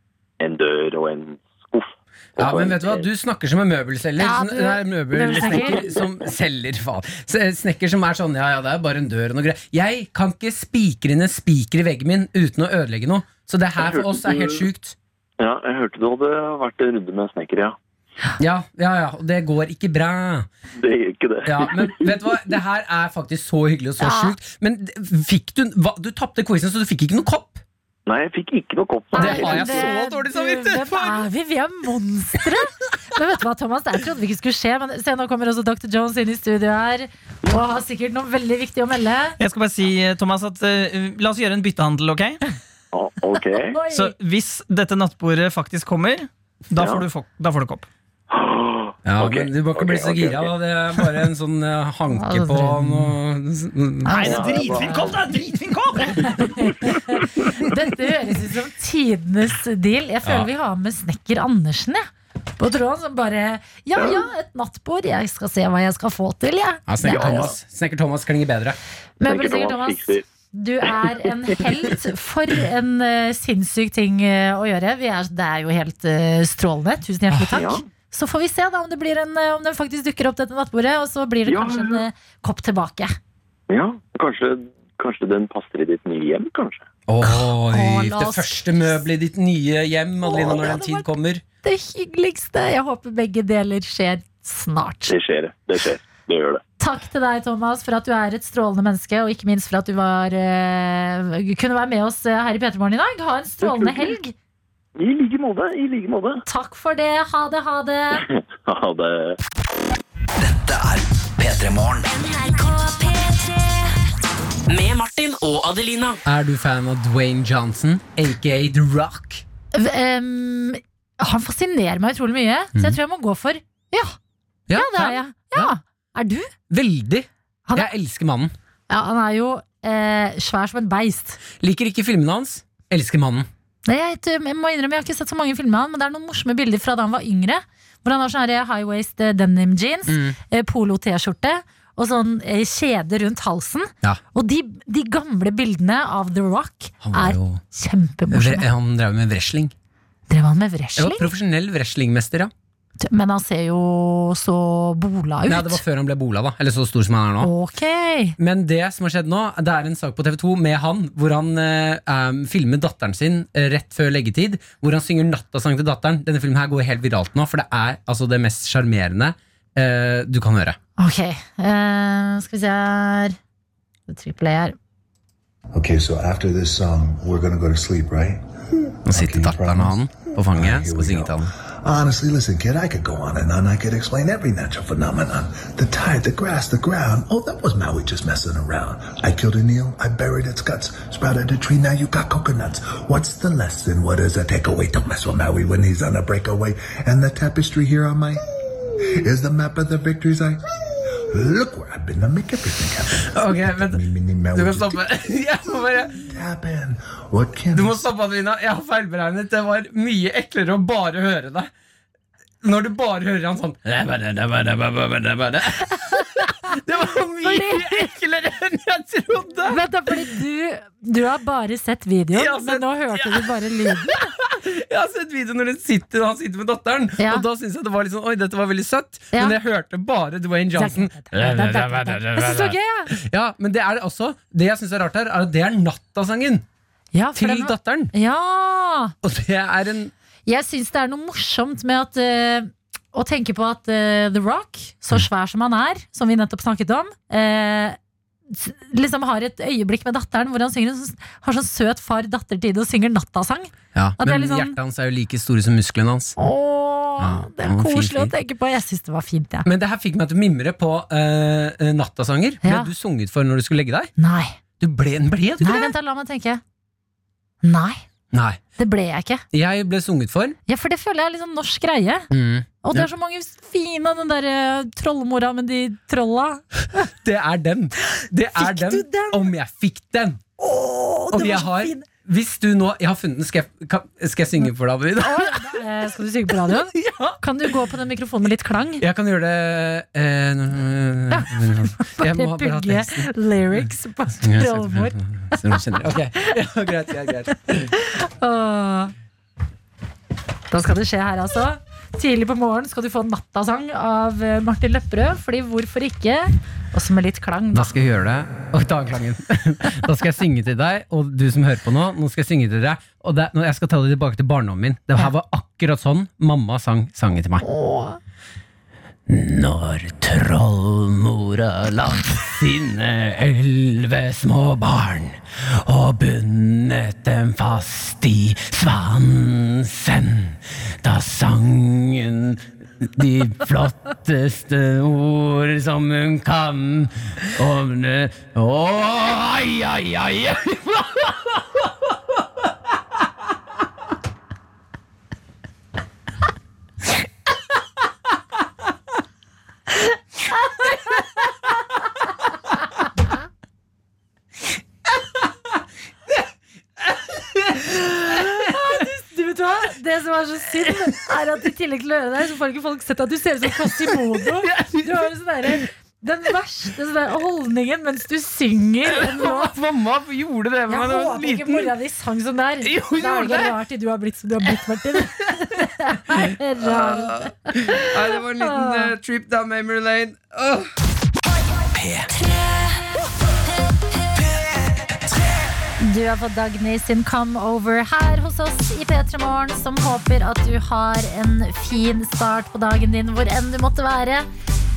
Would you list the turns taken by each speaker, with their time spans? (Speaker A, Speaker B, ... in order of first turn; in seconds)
Speaker A: 0.4-3.1, 5.5-6.0, 13.8-14.7, 15.4-17.8, 20.8-22.4, 28.1-29.9, 42.9-43.8, 46.8-47.0, 48.3-51.1, 54.2-55.2, 64.0-64.2, 67.0-67.5, 69.2-70.2, 77.5-77.8, 81.5-82.0, 83.7-86.9, 95.1-96.6, 103.6-104.1, 105.0-106.4, 108.2-109.4
Speaker B: 2.4-14.9, 18.4-20.5, 21.4-27.6, 29.1-31.2, 49.0-54.3, 66.9-68.8, 87.1-91.4, 116.2-119.4, 124.7-125.7, 126.7-128.5, 131.6-133.5, 140.1-140.4, 147.0-147.6, 148.3-149.7, 150.9-152.5, 155.5-157.5, 158.4-170.8, 179.0-181.5, 203.2-206.3, 207.7-211.7, 212.6-220.2, 222.3-236.7, 237.3-238.1, 239.2-240.1, 253.9-256.4, 257.2-258.3, 259.6-264.1, 264.8-265.9, 268.3-268.6, 269.5-270.6, 272.3-273.1, 277.0-280.4, 281.3-285.8, 286.9-287.3, 289.0-293.8, 294.4-297.9, 307.7-317.6, 319.3-341.9, 357.1-358.7, 363.8-365.3, 369.1-371.9, 372.8-373.8, 376.3-380.9
Speaker C: 4.2-5.9, 24.0-24.3, 29.1-39.4, 43.7-44.1, 52.1-53.1, 54.0-55.1, 56.2-62.1, 62.6-67.5, 69.2-83.1, 87.2-89.0, 90.2-91.0, 91.6-95.1, 96.8-104.3, 106.5-108.2, 119.7-124.2, 124.7-126.5, 128.9-131.4, 133.8-148.7, 150.3-151.3, 153.0-155.8, 157.4-158.3, 171.0-173.4, 174.1-174.8, 215.9-216.7, 217.4-218.1, 219.7-224.3, 227.2-227.4, 229.3-229.6, 230.7-233.1, 237.1-239.1, 240.4-248.0, 248.5-254.8, 256.4-259.7, 262.6-262.9, 264.2-264.6, 265.6-266.6, 267.6-268.0, 268.8-269.4, 270.7-272.3, 272.8-277.1, 278.6-279.5, 280.6-282.1, 285.2-289.0, 291.3-295.7, 298.0-299.1, 300.7-307.9, 317.6-318.2, 358.2-369.7, 370.9-379.1, 386.0-394.5
Speaker D: 39.4-42.4, 43.9-47.9, 54.1-56.4
Speaker E: 110.4-112.1, 382.0-382.2
Speaker F: 112.1-114.0, 114.7-116.2
Speaker G: 175.7-198.4, 199.0-205.1, 206.2-208.0